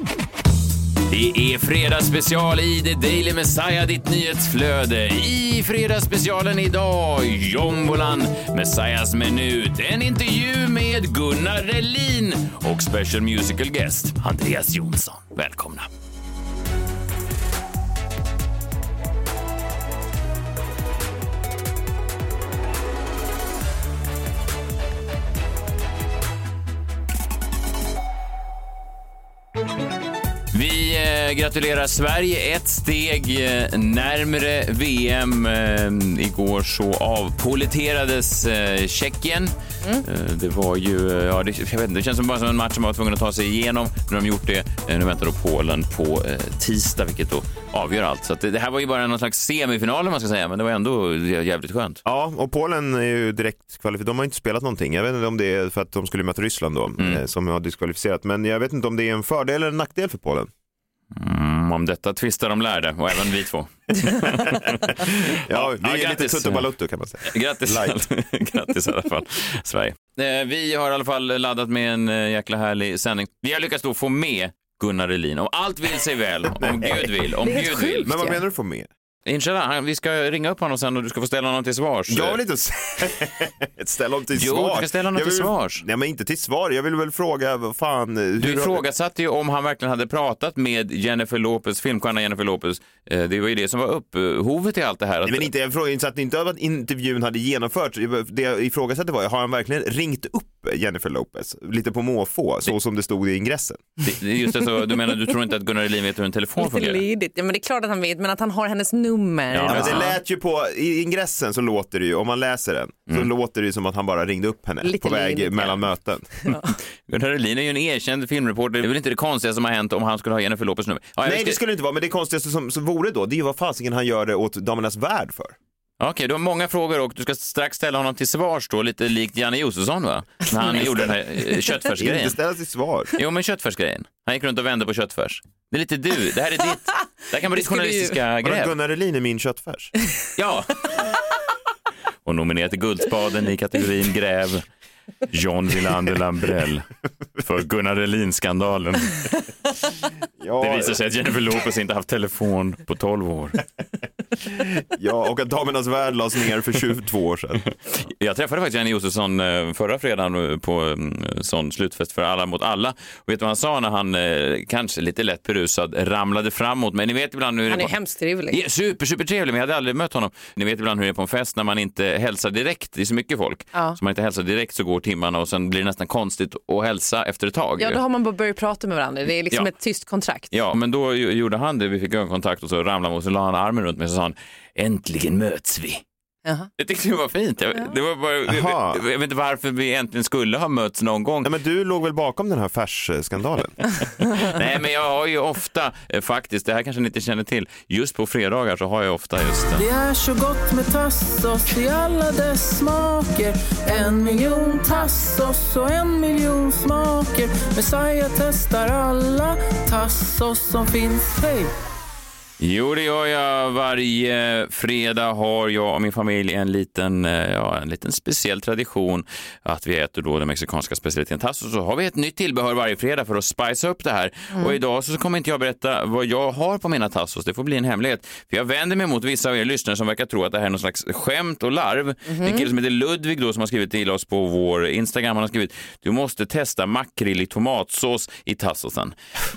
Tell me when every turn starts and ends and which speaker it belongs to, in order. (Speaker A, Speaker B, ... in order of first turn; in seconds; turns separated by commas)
Speaker A: 1.1-15.9, Speaker A: 30.5-52.0, Speaker B: 52.0-60.5, Speaker A: 61.1-66.7, Speaker B: 65.3-68.0, Speaker A: 67.2-78.2, Speaker B: 76.5-78.9, Speaker C: 77.4-78.4, Speaker A: 79.2-82.4, Speaker B: 82.1-88.8, Speaker A: 84.3-85.8, Speaker A: 88.4-95.5, Speaker B: 95.2-103.8, Speaker A: 104.0-107.0, Speaker C: 106.6-110.1, Speaker A: 109.5-110.1, Speaker B: 109.7-116.5, Speaker C: 114.8-115.8, Speaker C: 116.4-116.7, Speaker A: 117.0-121.6, Speaker B: 121.2-125.6, Speaker A: 126.0-132.4, Speaker B: 131.9-133.1, Speaker A: 133.1-138.7, Speaker C: 137.5-138.2, Speaker B: 138.4-139.9, Speaker A: 140.3-140.9, Speaker A: 142.2-144.7, Speaker A: 145.3-146.8, Speaker A: 147.4-149.2, Speaker B: 150.4-151.0, Speaker A: 150.6-153.6, Speaker B: 154.4-157.6, Speaker A: 157.9-167.9, Speaker C: 167.7-168.6, Speaker A: 168.5-178.0, Speaker C: 177.8-180.5, Speaker A: 180.5-186.0, Speaker C: 186.4-186.7, Speaker A: 186.8-191.5, Speaker B: 188.5-189.0, Speaker B: 191.4-193.8, Speaker A: 194.3-199.9, Speaker D: 199.8-211.7, Speaker A: 212.6-239.2, Speaker C: 232.3-232.7